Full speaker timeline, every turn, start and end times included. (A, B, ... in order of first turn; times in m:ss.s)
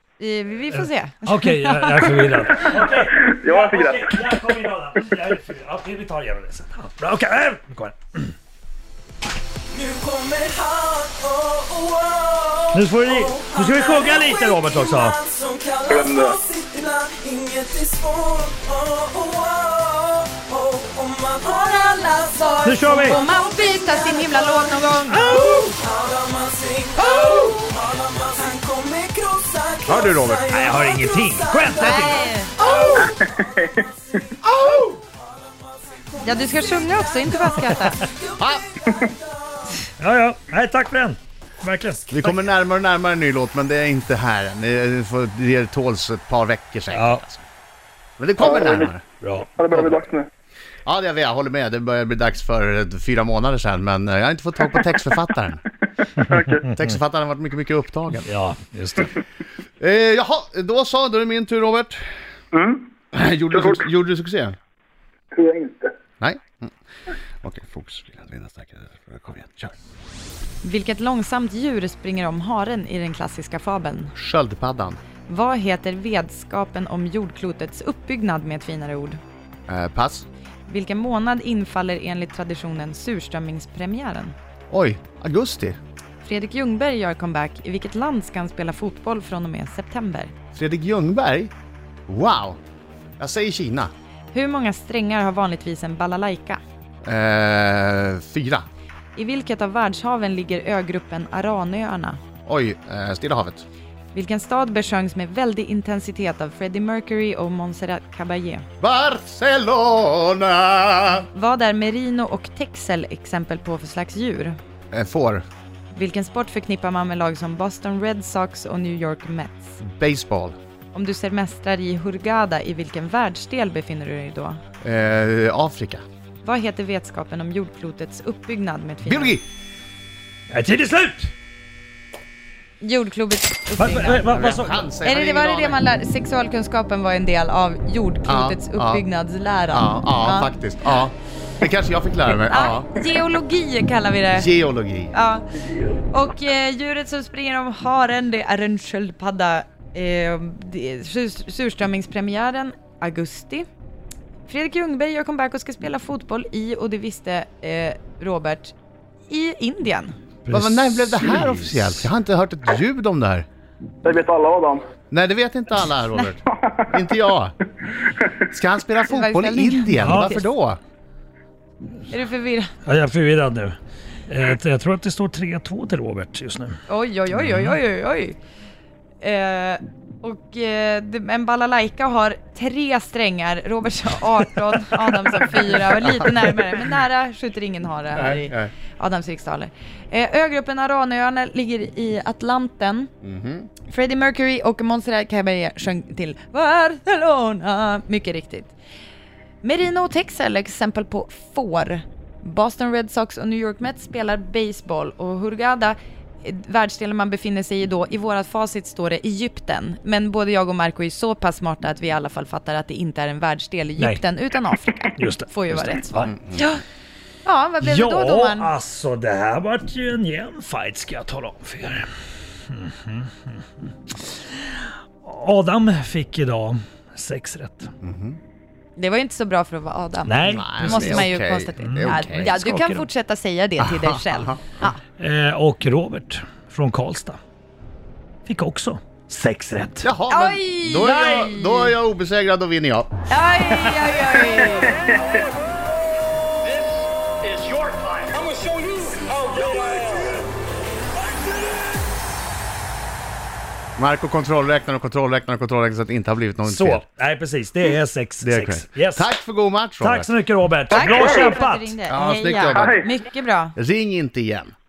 0:00.2-0:02.4 A
0:00.7-0:08.3 B
0:03.2-0:04.4 C
0:09.7-0:24.4 D
0:12.7-0:15.2 B
0:15.9-0:16.4 C
0:22.5-0:25.3 A
0:22.6-0:23.2 B
0:25.1-0:25.7 B
0:25.2-0:33.7 D
0:29.9-0:30.5 E
0:30.5-0:32.3 B
0:31.8-0:32.5 A
0:33.0-0:33.7 C
0:36.0-0:39.7 D
0:36.2-0:38.0 A
0:38.4-0:38.7 E
0:40.0-0:42.3 B
0:42.1-0:47.4 E
0:46.9-0:47.2 B
0:48.2-0:49.0 E
0:48.4-0:48.9 C
0:49.2-0:49.5 B
0:49.6-0:50.3 C
0:50.8-0:55.6 E
0:56.2-0:56.7 C
0:56.7-0:58.3 E
0:58.3-0:59.1 B
0:59.8-1:02.0 E
1:02.5-1:02.9 C
1:03.1-1:04.6 E
1:03.5-1:03.9 C
1:05.3-1:05.9 C
1:06.2-1:06.7 E
1:07.4-1:09.7 E
1:10.6-1:14.1 A
1:14.2-1:15.0 E
1:15.3-1:19.2 A
1:19.7-1:20.3 E
1:20.7-1:24.4 A
1:24.7-1:25.8 E
1:26.2-1:30.3 A
1:30.5-1:31.5 E
1:32.1-1:32.6 E
1:33.2-1:33.9 E
1:34.3-1:36.6 A
1:37.0-1:38.7 E
1:39.2-1:42.2 A
1:42.5-1:43.6 E
1:44.1-1:48.7 A
1:48.8-1:51.3 E
1:51.3-1:54.6 A
1:54.9-1:55.4 E
1:55.9-1:59.8 A
1:59.8-2:00.6 E
2:00.9-2:04.6 A
2:04.8-2:06.0 E
2:06.4-2:09.4 A
2:09.0-2:09.4 E
2:10.5-2:11.3 B
2:12.8-2:14.3 A
2:13.8-2:14.8 B
2:14.3-2:15.8 E
2:15.0-2:20.5 A
2:18.3-2:19.0 E
2:19.7-2:22.9 E
2:22.3-2:24.5 A
2:24.3-2:25.1 E
2:25.1-2:25.5 A
2:26.1-2:33.7 A
2:34.5-2:38.7 A
2:39.3-2:40.2 A
2:40.5-2:42.0 B
2:40.5-2:43.5 E
2:44.0-2:44.8 C
2:45.1-2:47.6 E
2:48.5-2:50.8 E
2:49.1-2:50.3 A
2:50.0-2:50.4 B
2:52.1-2:52.7 A
2:52.9-2:53.8 B
2:54.3-2:56.8 B
2:56.9-2:58.4 A
2:57.4-2:57.7 B
2:59.2-3:13.1 A
3:06.0-3:06.5 E
3:08.1-3:08.7 E
3:13.2-3:13.7 E
3:13.9-3:18.7 A
3:19.6-3:36.8 A
3:35.2-3:36.3 B
3:36.2-3:36.6 E
3:37.4-3:38.7 A
3:37.8-3:42.1 B
3:42.7-3:43.6 B
3:44.6-3:47.9 B
3:48.0-3:48.4 E
3:49.0-3:55.0 A
3:50.3-3:53.1 B
3:50.5-3:52.5 E
3:53.8-3:54.7 E
3:55.2-3:57.4 B
3:58.5-4:00.1 B
4:00.0-4:03.1 E
4:00.3-4:02.0 A
4:03.3-4:05.1 A
4:14.0-4:17.0 E
4:16.6-4:19.3 B
4:18.4-4:20.3 E
4:20.0-4:22.0 B
4:20.9-4:23.8 A
4:21.0-4:21.6 C
4:22.1-4:23.0 E
4:22.7-4:23.1 C
4:23.8-4:24.7 E